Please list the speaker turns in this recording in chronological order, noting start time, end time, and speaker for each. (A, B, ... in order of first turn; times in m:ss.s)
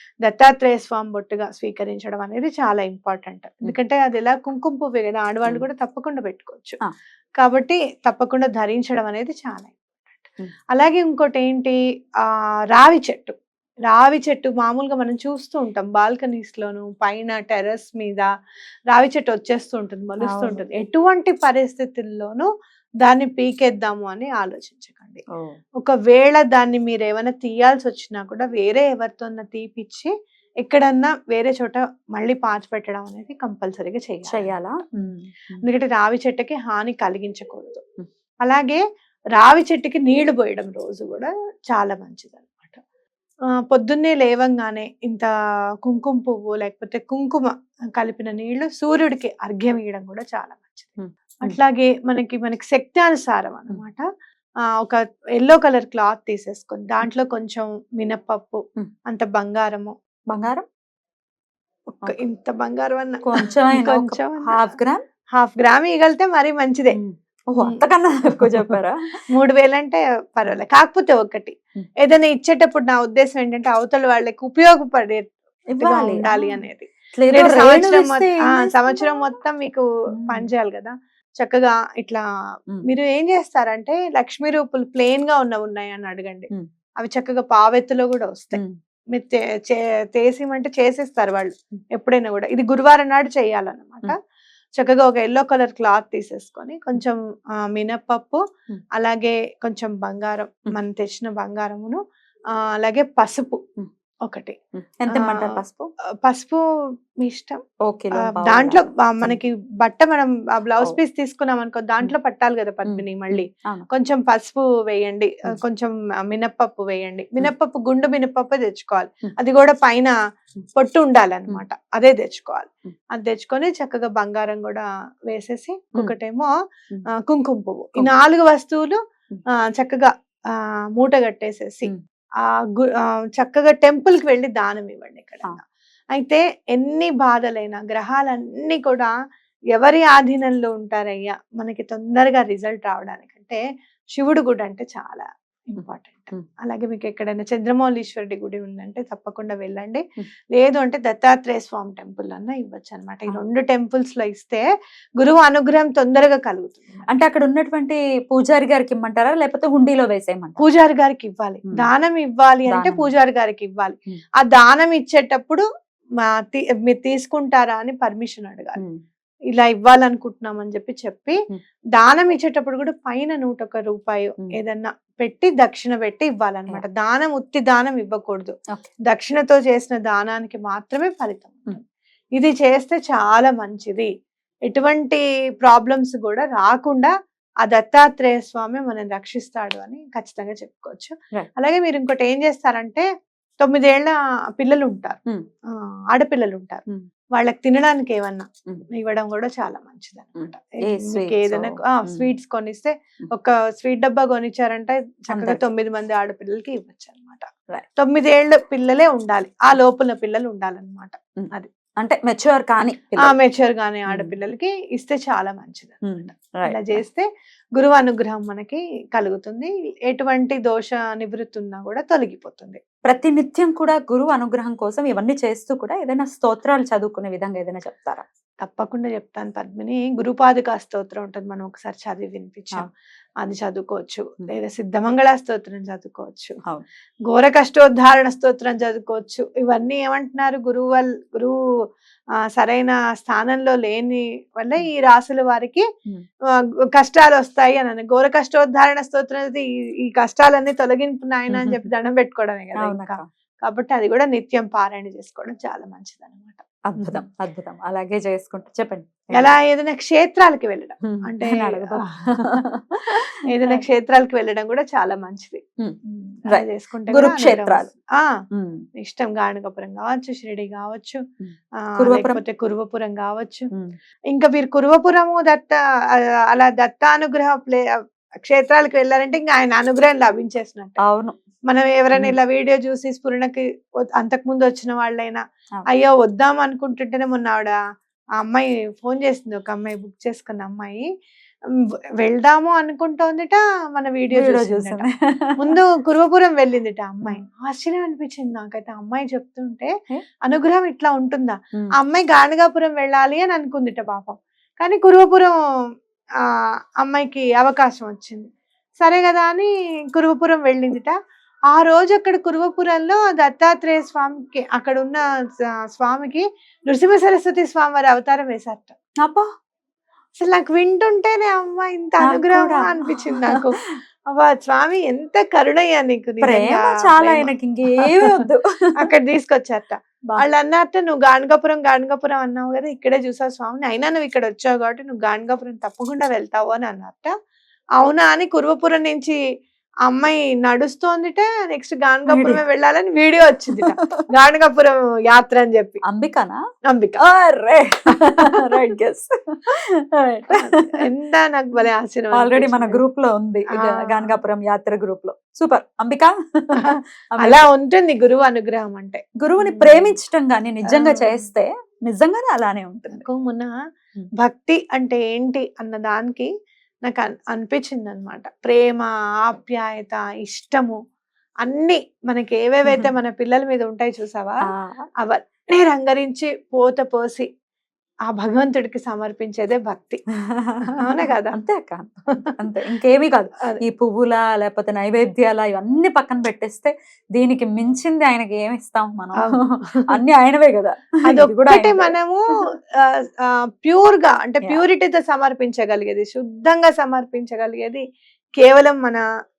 0:00.2-0:06.8 A
0:07.4-0:13.4 A
0:13.9-0:18.3 A
0:18.9-0:22.5 A
0:20.2-0:20.6 B
0:23.0-0:25.2 A
0:25.8-0:30.1 A
0:30.6-0:34.6 A
0:34.3-0:35.6 B
0:35.6-0:37.8 A
0:38.4-0:38.8 A
0:39.4-0:42.8 A
0:43.7-0:45.3 A
0:45.8-0:54.0 A
0:51.0-0:51.6 B
0:54.8-0:59.9 A
1:00.3-1:00.7 B
1:02.0-1:04.6 A
1:03.2-1:05.0 B
1:05.4-1:07.0 A
1:07.0-1:09.0 B
1:08.4-1:08.8 A
1:09.3-1:22.2 A
1:15.7-1:19.2 B
1:20.2-1:20.5 B
1:22.9-1:26.5 A
1:27.0-1:34.2 A
1:34.8-1:38.4 A
1:39.0-1:42.0 A
1:42.8-1:43.6 A
1:44.3-1:44.6 A
1:44.8-1:45.9 B
1:45.1-1:45.5 A
1:46.2-1:46.6 A
1:47.2-1:47.6 A
1:47.9-1:49.4 B
1:48.2-2:00.1 A
1:52.9-1:53.9 B
2:00.8-2:06.5 A
2:07.2-2:09.0 A
2:09.7-2:11.9 A
2:12.4-2:15.6 A
2:16.2-2:19.1 A
2:19.7-2:23.6 A
2:24.2-2:30.0 A
2:25.8-2:26.4 B
2:30.6-2:34.7 A
2:35.2-2:37.0 A
2:37.1-2:40.6 B
2:40.6-2:45.6 A
2:42.7-2:43.1 B
2:46.3-2:48.8 A
2:49.5-2:51.4 A
2:51.9-2:58.6 A
2:59.1-3:01.8 A
3:02.4-3:04.1 A
3:04.7-3:07.1 A
3:07.6-3:13.1 A
3:13.6-3:15.2 A
3:16.1-3:16.8 A
3:17.4-3:31.7 A
3:20.4-3:22.3 B
3:25.3-3:25.6 B
3:31.4-3:33.4 B
3:33.2-3:42.8 A
3:36.0-3:37.0 B
3:43.1-3:48.2 B
3:48.6-3:52.9 A
3:53.4-3:56.6 A
3:57.3-4:01.6 A
4:02.5-4:05.8 A
4:06.9-4:17.2 A
4:11.5-4:11.9 B
4:12.8-4:13.2 B
4:16.9-4:19.6 B
4:19.3-4:22.6 A
4:21.0-4:23.8 B
4:23.5-4:28.3 A
4:26.5-4:27.9 B
4:28.5-4:28.8 B
4:29.0-4:31.2 A
4:31.4-4:32.4 B
4:32.0-4:33.7 A
4:34.3-4:35.8 A
4:36.5-4:37.8 A
4:38.4-4:41.0 A
4:41.1-4:41.4 B
4:41.7-4:43.6 A
4:44.2-4:45.4 A
4:45.9-4:47.8 A
4:48.4-4:51.1 A
4:52.2-4:55.1 A
4:54.3-4:55.8 B
4:55.6-4:59.9 A
5:00.5-5:05.6 A
5:07.0-5:08.5 A
5:09.0-5:11.2 A
5:11.7-5:15.2 A
5:15.9-5:18.9 A
5:19.2-5:19.5 B
5:20.4-5:23.8 A
5:22.2-5:24.0 B
5:24.3-5:28.1 A
5:26.4-5:28.7 B
5:29.0-5:37.3 A
5:38.0-5:39.4 A
5:40.1-5:46.0 A
5:42.3-5:42.6 B
5:43.8-5:44.1 B
5:46.1-5:46.6 B
5:46.9-5:47.2 A
5:47.2-5:49.3 B
5:50.2-5:50.8 B
5:50.5-5:53.0 A
5:52.4-5:57.6 B
5:53.8-5:54.4 A
5:56.8-6:00.1 A
5:59.4-6:03.2 B
6:00.9-6:01.4 A
6:03.1-6:03.7 A
6:04.4-6:06.5 A
6:07.0-6:11.0 A
6:11.6-6:14.6 A
6:14.7-6:15.1 B
6:15.2-6:17.5 A
6:18.3-6:20.2 A
6:20.9-6:21.6 A
6:21.5-6:32.2 B
6:29.4-6:30.2 A
6:31.2-6:32.4 A
6:33.0-6:38.0 A
6:38.6-6:39.2 A